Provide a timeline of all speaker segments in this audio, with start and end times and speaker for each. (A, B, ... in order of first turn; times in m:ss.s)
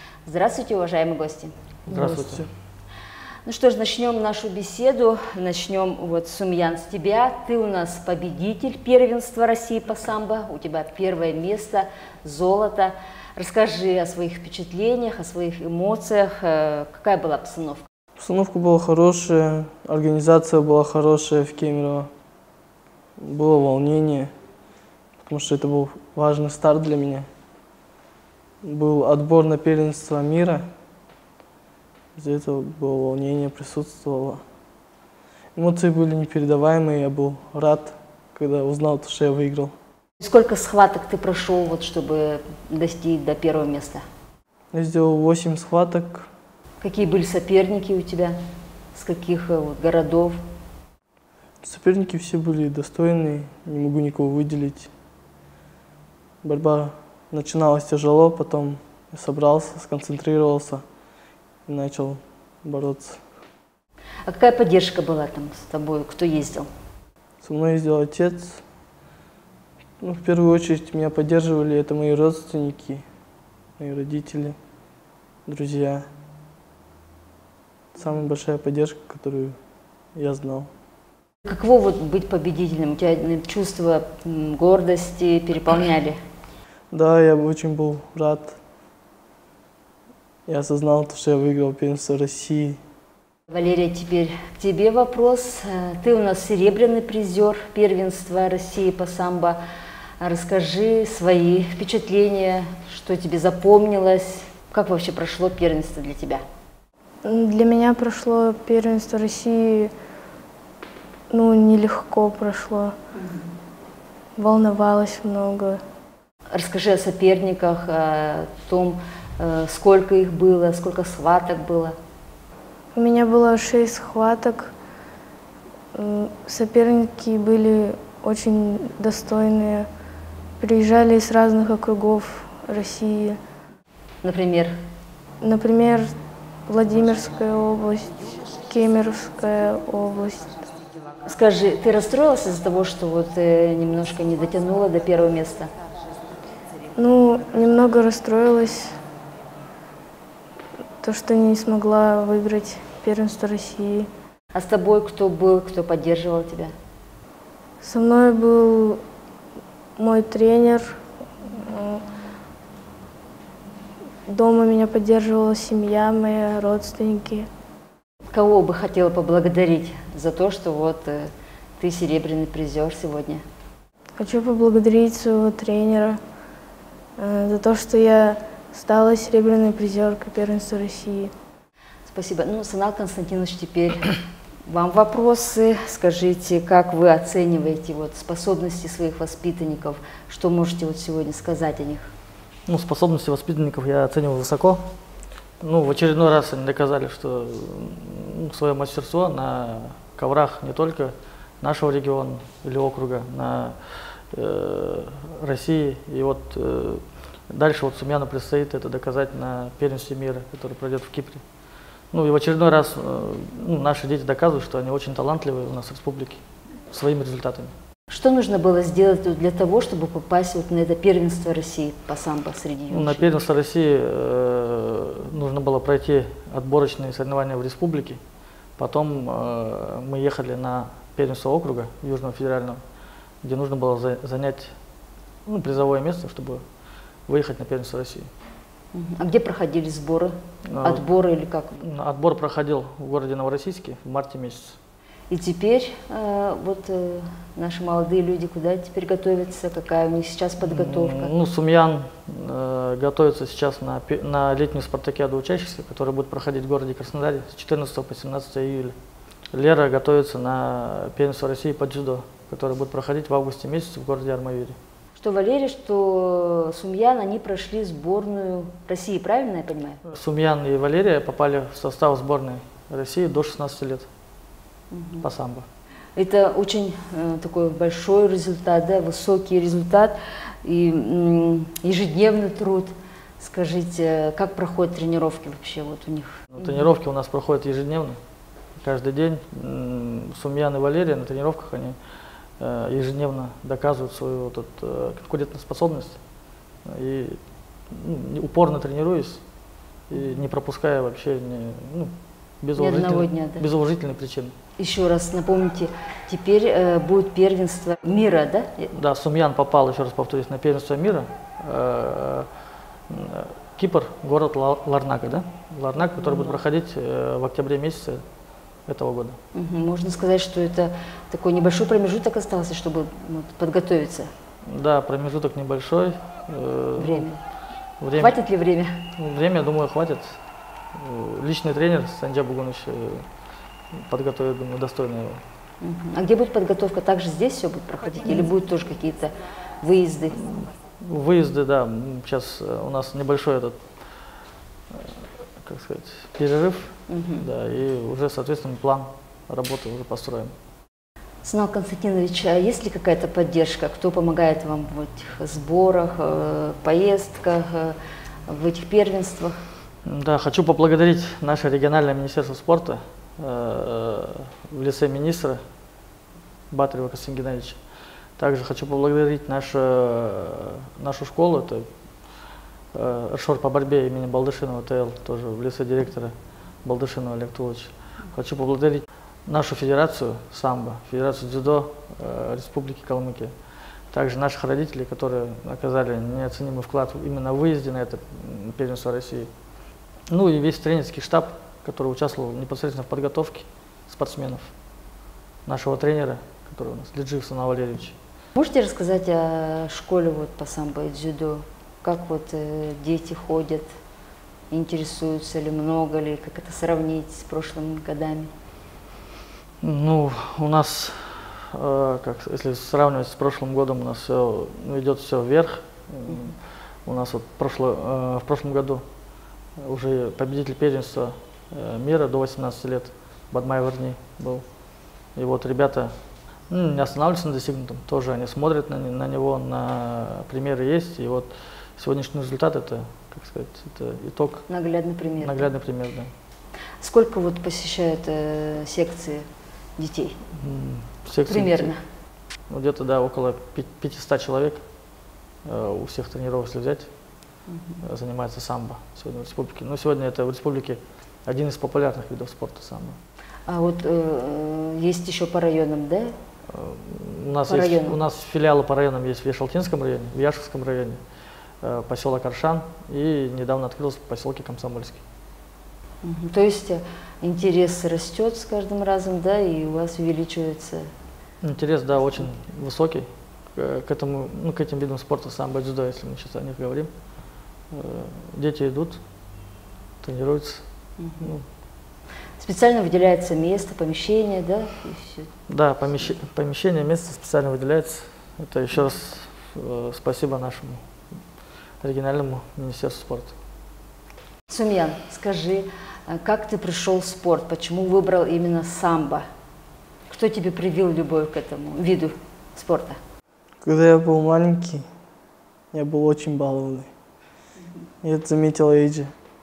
0:00.2-0:01.5 A
0:01.9-0:02.5 B
0:01.9-0:02.5 C
0:03.4-0:17.9 A
0:18.2-0:22.1 C
0:23.2-0:24.3 C
0:25.2-0:27.3 C
0:28.6-0:30.7 C
0:32.2-0:34.4 C
0:35.6-0:39.8 C
0:40.2-0:44.0 A
0:44.7-0:46.3 C
0:46.8-0:48.4 A
0:48.9-0:50.4 A
0:51.6-0:54.9 C
0:56.4-1:00.8 C
1:01.7-1:03.2 C
1:04.3-1:06.7 A
1:07.4-1:08.6 C
1:10.0-1:13.0 C
1:13.8-1:14.6 C
1:15.5-1:16.1 C
1:17.9-1:19.6 C
1:20.2-1:20.7 C
1:21.5-1:26.2 A
1:26.9-1:28.6 C
1:30.5-1:32.8 C
1:33.5-1:39.6 A
1:40.2-1:46.4 A
1:47.2-1:49.9 D
1:51.3-1:52.9 D
1:54.4-1:55.8 D
1:56.5-2:02.0 A
2:02.9-2:04.7 D
2:06.0-2:09.9 D
2:10.6-2:13.4 D
2:14.2-2:14.8 A
2:15.4-2:16.2 D
2:16.7-2:20.5 D
2:21.2-2:25.7 A
2:27.0-2:29.0 D
2:31.0-2:34.1 D
2:34.5-2:36.7 A
2:37.8-2:39.0 D
2:40.0-2:42.0 D
2:44.3-2:47.5 D
2:48.3-2:53.4 A
2:54.2-2:56.2 D
2:57.2-3:01.3 D
3:02.0-3:12.1 A
3:12.7-3:14.8 B
3:15.6-3:31.4 B
3:32.1-3:37.7 B
3:38.1-3:43.3 A
3:42.9-3:48.2 B
3:48.8-3:52.8 B
3:53.4-3:54.8 B
3:55.5-3:56.6 B
3:57.3-3:58.3 B
3:58.9-4:01.8 A
4:00.7-4:01.1 B
4:01.8-4:04.8 B
4:05.3-4:11.3 A
4:10.6-4:19.0 B
4:19.5-4:24.8 B
4:25.2-4:30.0 A
4:30.0-4:34.1 B
4:34.9-4:35.3 A
4:35.2-4:35.7 B
4:36.2-4:46.9 A
4:46.5-4:48.2 B
4:48.8-4:52.0 B
4:52.6-4:56.2 B
4:56.8-4:59.4 B
5:00.1-5:04.5 B
5:02.8-5:03.7 A
5:04.8-5:08.9 A
5:08.9-5:12.5 B
5:13.1-5:18.2 B
5:18.8-5:19.4 B
5:19.5-5:24.3 A
5:24.6-5:27.3 B
5:27.0-5:27.4 A
5:28.0-5:28.4 B
5:28.1-5:29.0 A
5:29.2-5:30.4 B
5:30.9-5:33.3 B
5:33.9-5:35.4 B
5:35.8-5:40.4 A
5:40.3-5:44.1 B
5:44.9-5:50.5 B
5:47.1-5:47.5 A
5:51.4-5:59.6 A
6:00.0-6:05.6 B
6:06.7-6:29.5 B
6:30.3-6:34.7 B
6:35.6-6:38.2 B
6:38.6-6:43.9 A
6:44.7-6:48.5 A
6:49.8-6:59.0 B
6:59.8-7:04.7 B
7:05.3-7:06.2 B
7:06.7-7:14.7 B
7:14.7-7:15.7 A
7:15.4-7:16.3 B
7:17.0-7:20.4 A
7:20.5-7:22.0 B
7:21.5-7:22.0 A
7:22.7-7:24.9 B
7:25.6-7:27.1 B
7:27.7-7:28.0 A
7:28.0-7:33.2 B
7:33.7-7:36.3 A
7:36.7-7:41.2 B
7:37.6-7:38.2 A
7:41.8-7:45.2 B
7:46.2-7:51.1 A
7:51.6-7:57.1 B
7:57.9-7:59.2 B
8:00.2-8:00.8 B
8:01.2-8:01.5 A
8:02.6-8:05.5 A
8:05.7-8:11.3 B
8:12.0-8:13.5 B
8:14.7-8:19.4 A
8:20.3-8:23.2 A
8:23.8-8:25.1 C
8:25.9-8:27.1 C
8:28.2-8:29.4 C